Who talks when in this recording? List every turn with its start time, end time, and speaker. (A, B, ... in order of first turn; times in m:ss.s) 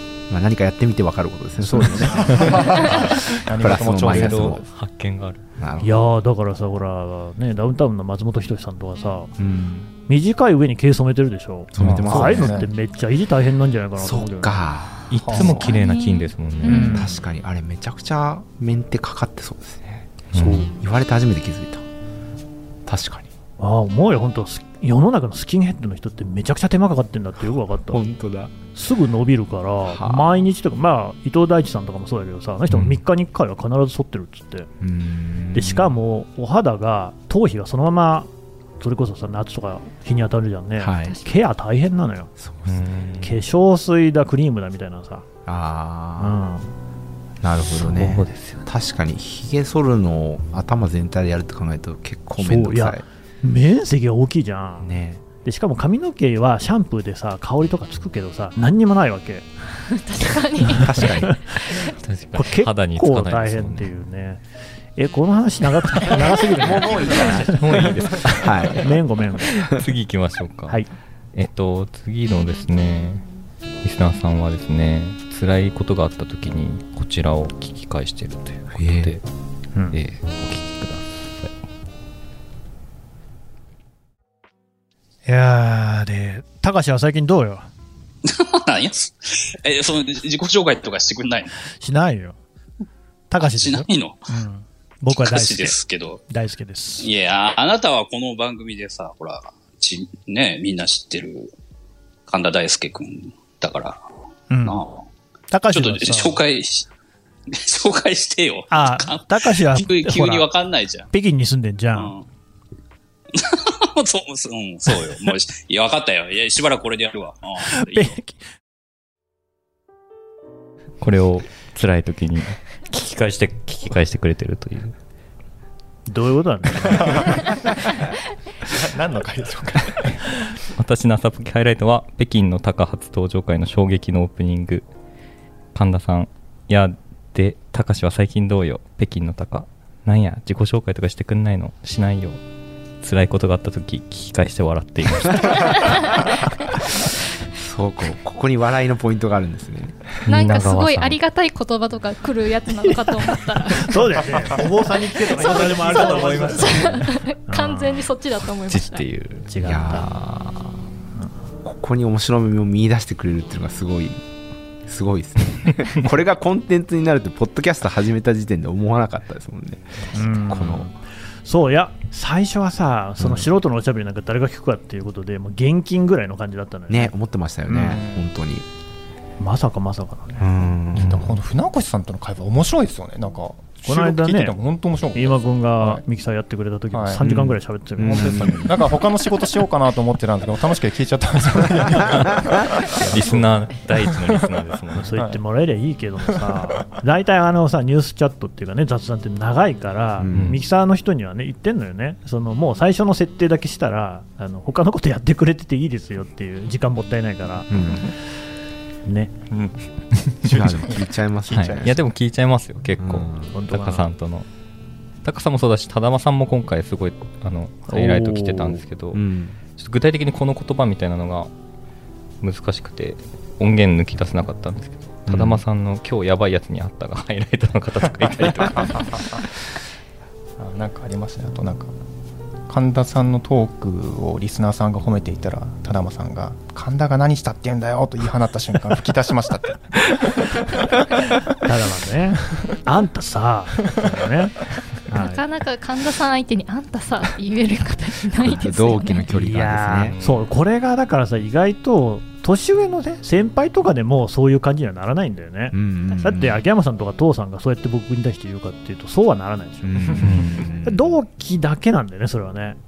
0:00.3-0:04.6 A
0:01.6-0:02.5 B
0:02.1-0:04.6 C
0:04.0-0:05.4 D
0:05.6-0:06.1 A
0:05.8-0:09.3 B
0:09.4-0:09.9 A
0:10.1-0:14.7 B
0:11.7-0:12.6 A
0:11.8-0:12.7 C
0:14.0-0:15.8 A
0:15.1-0:17.0 D
0:15.2-0:15.6 C
0:15.6-0:17.1 E
0:16.7-0:17.1 B
0:16.7-0:21.8 A
0:20.3-0:20.7 D
0:20.4-0:20.7 B
0:22.9-0:23.3 A
0:23.6-0:28.0 B
0:27.9-0:28.5 A
0:28.8-0:34.7 B
0:29.9-0:30.3 A
0:34.8-0:35.9 A
0:35.5-0:42.3 B
0:40.8-0:41.2 A
0:42.4-0:43.1 A
0:42.7-0:43.4 D
0:43.2-0:45.2 B
0:45.5-0:46.4 A
0:46.2-0:46.7 B
0:47.4-0:53.0 A
0:47.7-0:48.7 D
0:52.4-0:54.9 B
0:54.8-0:55.2 A
0:55.4-0:59.5 B
0:59.8-1:01.1 E
1:00.7-1:01.4 A
1:01.0-1:01.8 B
1:01.9-1:03.9 D
1:02.3-1:04.4 B
1:05.0-1:08.0 B
1:06.6-1:07.5 A
1:07.2-1:08.8 D
1:08.3-1:09.0 A
1:08.8-1:09.6 B
1:09.5-1:09.8 A
1:09.6-1:10.8 D
1:11.3-1:13.2 D
1:13.8-1:19.2 D
1:18.8-1:19.2 A
1:19.9-1:21.5 D
1:25.3-1:27.7 B
1:28.3-1:31.5 F
1:31.8-1:32.4 B
1:33.3-1:35.8 B
1:33.4-1:34.3 F
1:35.1-1:36.2 F
1:36.3-1:37.1 B
1:37.0-1:41.5 F
1:42.3-1:44.0 F
1:44.5-1:44.8 B
1:44.6-1:45.0 F
1:45.5-1:46.4 B
1:45.7-1:46.9 F
1:47.5-1:51.1 F
1:48.7-1:50.5 B
1:51.1-1:52.1 B
1:52.0-1:52.2 F
1:53.3-1:58.1 F
1:57.6-1:58.4 B
2:01.0-2:05.0 D
2:06.1-2:07.3 B
2:07.1-2:07.5 C
2:08.7-2:10.2 C
2:10.8-2:14.9 D
2:15.7-2:22.4 D
2:23.0-2:26.1 D
2:27.5-2:30.1 A
2:30.2-2:31.2 D
2:30.3-2:34.2 E
2:33.7-2:38.1 B
2:35.2-2:39.1 E
2:35.4-2:37.1 D
2:38.6-2:39.5 D
2:39.5-2:40.1 B
2:39.6-2:40.8 A
2:41.6-2:44.2 A
2:44.9-2:50.9 A
2:50.1-2:57.1 B
2:53.2-2:53.5 A
2:56.9-2:58.7 A
2:57.7-2:58.3 C
2:59.4-3:00.4 B
3:00.4-3:01.4 A
3:01.0-3:06.0 C
3:03.8-3:04.6 B
3:05.1-3:08.6 B
3:06.9-3:07.3 C
3:07.2-3:08.8 A
3:08.0-3:13.4 C
3:13.0-3:15.2 D
3:13.0-3:13.4 A
3:14.0-3:14.4 C
3:15.0-3:28.1 B
3:20.2-3:20.6 A
3:20.3-3:20.6 D
3:27.7-3:28.1 A
3:29.1-3:29.3 B
3:29.5-3:29.8 C
3:30.4-3:32.0 C
3:30.5-3:32.0 A
3:31.5-3:34.5 D
3:33.0-3:33.5 A
3:33.5-3:34.1 B
3:35.2-3:41.5 D
3:37.9-3:38.8 B
3:39.1-3:39.6 A
3:42.4-3:49.4 D
3:45.3-3:45.6 A
3:48.8-3:49.4 C
3:50.6-3:51.9 C
3:52.7-4:00.9 C
4:01.6-4:05.4 B
4:05.1-4:09.3 E
4:08.4-4:10.2 A
4:09.3-4:20.3 B
4:10.1-4:10.5 D
4:15.7-4:16.6 A
4:19.8-4:21.2 A
4:20.2-4:20.6 D
4:20.8-4:22.8 B